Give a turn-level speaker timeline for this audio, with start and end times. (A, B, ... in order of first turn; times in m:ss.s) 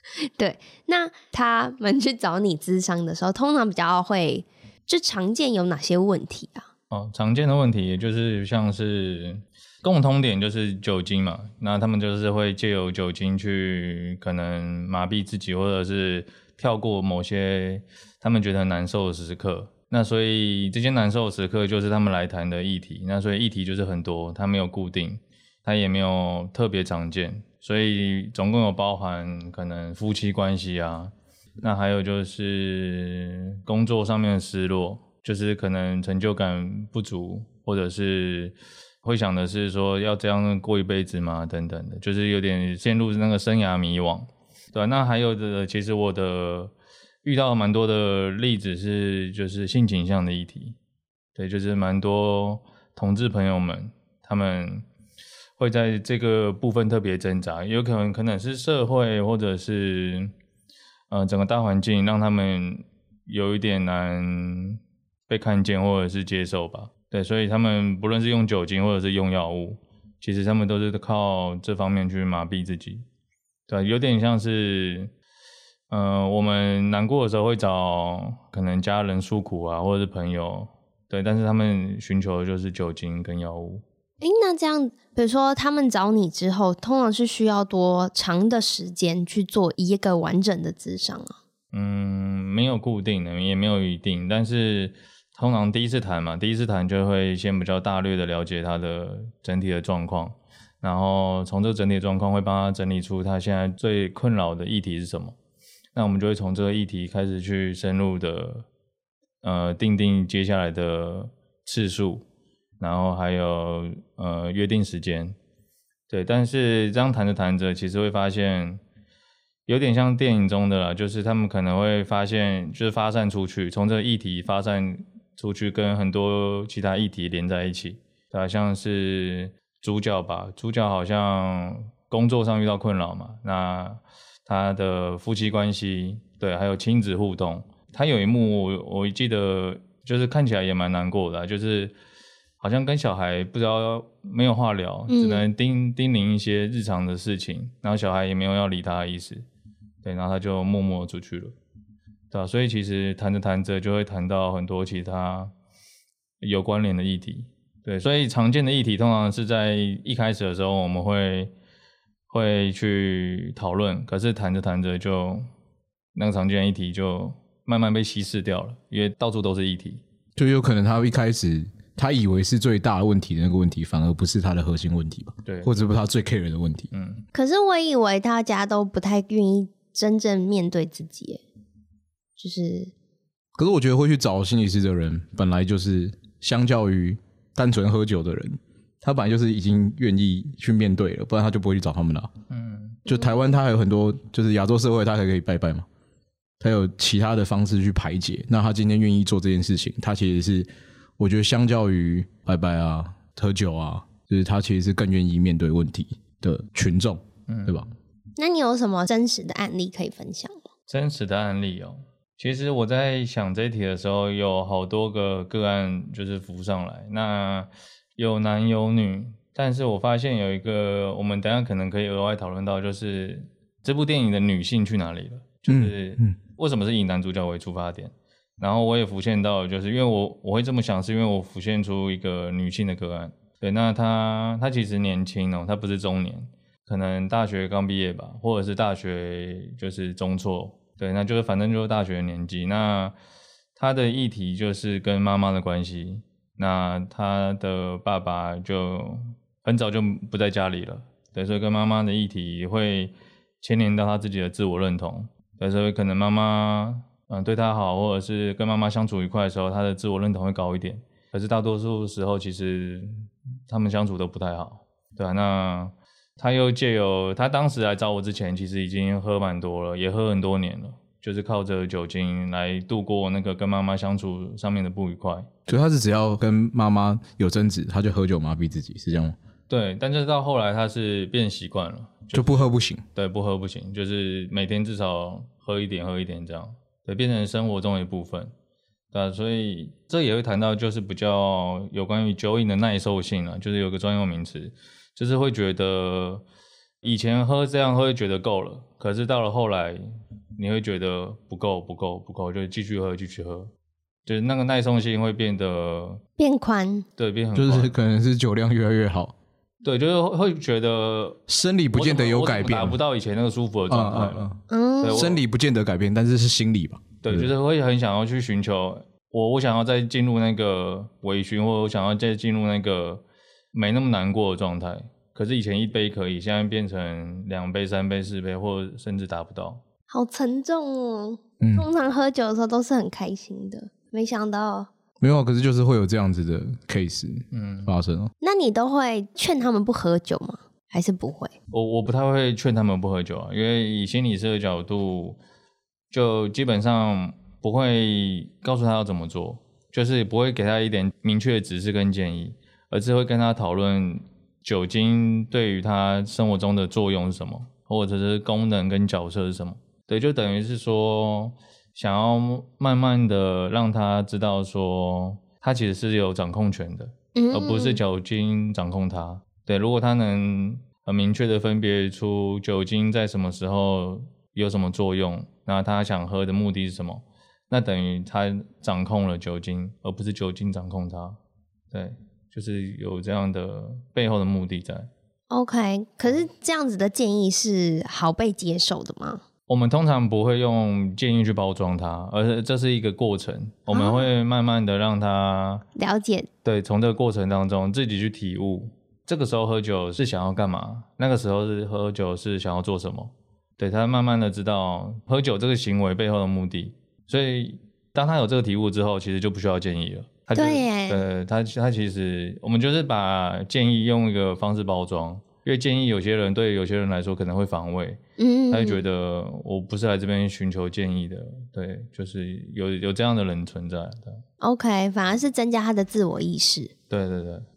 0:00.4-0:06.7 A
0:06.9-0:46.7 B
0:47.2-0:50.8 B
0:51.4-0:54.9 B
0:55.6-1:00.3 B
1:01.1-1:13.1 B
1:13.7-1:15.1 B
1:15.9-1:23.8 B
1:24.2-1:31.4 A
1:31.7-1:45.4 B
1:46.0-1:48.7 B
1:49.4-1:52.2 B
1:52.8-1:55.4 B
1:56.1-1:58.8 B
1:59.7-2:21.9 B
2:22.6-2:29.5 B
2:25.1-2:25.4 A
2:30.0-2:31.6 B
2:32.3-2:35.5 B
2:36.4-2:41.5 B
2:42.3-2:45.5 B
2:46.2-2:50.0 B
2:50.4-2:56.9 C
2:55.5-2:55.7 B
2:56.9-2:57.2 B
2:57.3-3:01.4 A
3:02.4-3:02.9 A
3:03.6-3:12.3 C
3:12.5-3:13.0 B
3:13.1-3:15.9 C
3:16.6-3:20.7 C
3:21.2-3:27.9 C
3:27.5-3:27.9 B
3:28.4-3:30.6 A
3:30.9-4:03.2 B
3:45.7-3:46.4 C
4:03.8-4:35.5 B
4:35.7-4:39.4 C
4:39.7-4:48.5 B
4:42.3-4:43.0 C
4:49.1-4:56.4 B
4:57.0-5:03.7 B
5:04.3-5:06.2 B
5:06.4-5:07.1 A
5:07.2-5:07.9 B
5:07.5-5:09.3 C
5:09.8-5:11.4 B
5:11.5-5:13.0 C
5:11.9-5:14.5 B
5:13.9-5:17.5 C
5:14.7-5:15.3 A
5:15.0-5:15.4 B
5:17.2-5:29.8 B
5:30.1-5:34.9 A
5:31.6-5:31.9 C
5:35.2-5:38.3 C
5:37.5-5:37.9 B
5:38.4-5:41.5 A
5:41.7-5:45.4 B
5:46.1-6:21.4 B
6:07.4-6:08.0 A
6:21.9-6:25.1 B
6:25.5-6:29.4 A
6:29.7-6:35.8 B
6:33.9-6:34.3 A
6:36.0-6:36.5 A
6:36.6-7:04.4 B
6:50.6-6:51.2 A
6:58.4-6:59.0 A
7:04.6-7:06.9 A
7:07.1-7:07.7 B